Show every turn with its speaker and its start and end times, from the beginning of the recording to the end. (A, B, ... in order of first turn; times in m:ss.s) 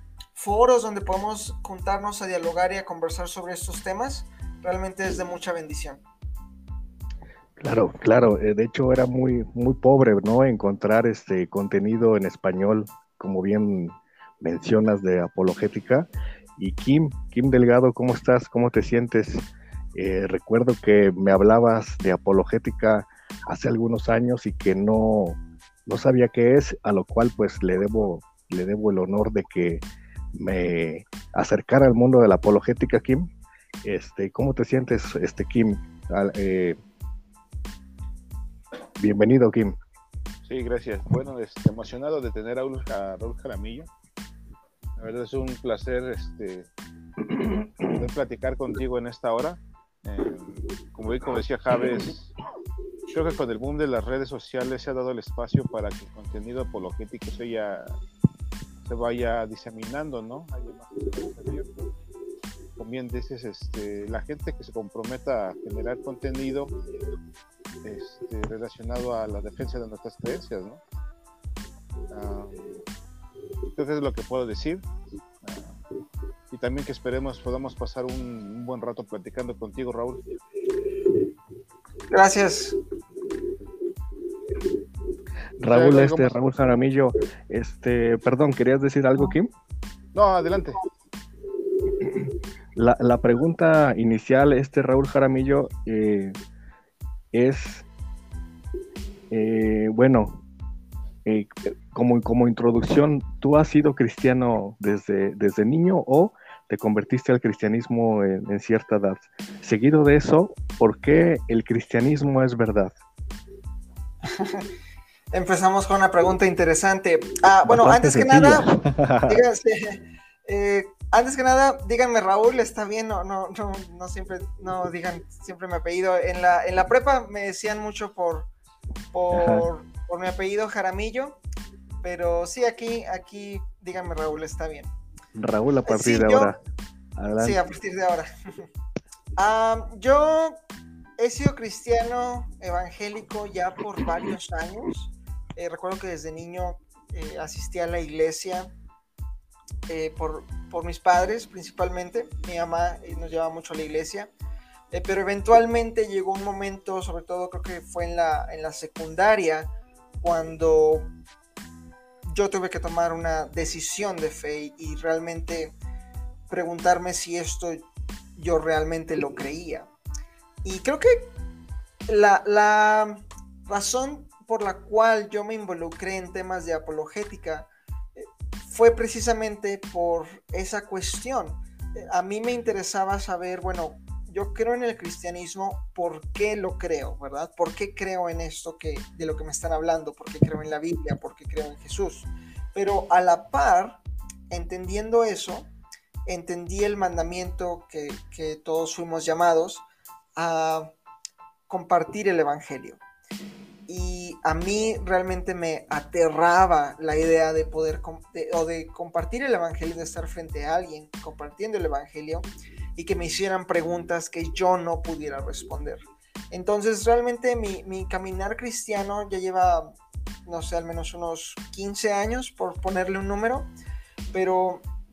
0:00.4-0:06.0 A
0:07.6-0:29.8 B
0:30.3-0:33.3 B
0:33.8-0:36.8 B
0:39.0-0:39.8 B
0:40.5-0:43.9 C
0:45.0-0:46.7 C
0:47.8-0:52.3 C
0:53.1-0:57.9 C
0:58.8-1:01.9 C
1:02.8-1:06.7 C
1:07.8-1:10.8 C
1:12.1-1:12.7 C
1:13.7-1:14.8 C
1:15.4-1:15.8 C
1:16.5-1:20.4 C
1:22.1-1:22.7 A
1:25.6-1:29.5 B
1:25.6-1:26.3 C
1:30.1-1:30.8 C
1:32.8-1:36.3 B
1:37.3-1:37.8 B
1:39.3-1:40.4 B
1:41.2-1:52.9 B
1:54.3-1:54.6 A
1:55.3-1:58.7 A
1:57.6-1:59.4 B
1:59.3-2:08.5 A
2:09.1-2:11.4 A
2:09.3-2:09.6 B
2:12.0-2:14.9 A
2:15.3-2:16.6 B
2:15.8-2:16.6 A
2:17.2-2:17.6 B
2:17.4-2:18.3 A
2:19.4-2:20.6 A
2:21.2-2:28.7 A
2:29.9-2:34.3 A
2:34.9-2:41.1 A
2:42.3-2:45.7 A
2:46.5-2:49.9 A
2:50.6-2:51.3 A
2:52.1-3:15.7 A
3:16.2-3:19.8 A
3:20.4-3:20.9 A
3:21.7-3:23.0 A
3:23.9-3:39.9 A
3:40.4-3:43.7 A
3:44.3-3:44.8 A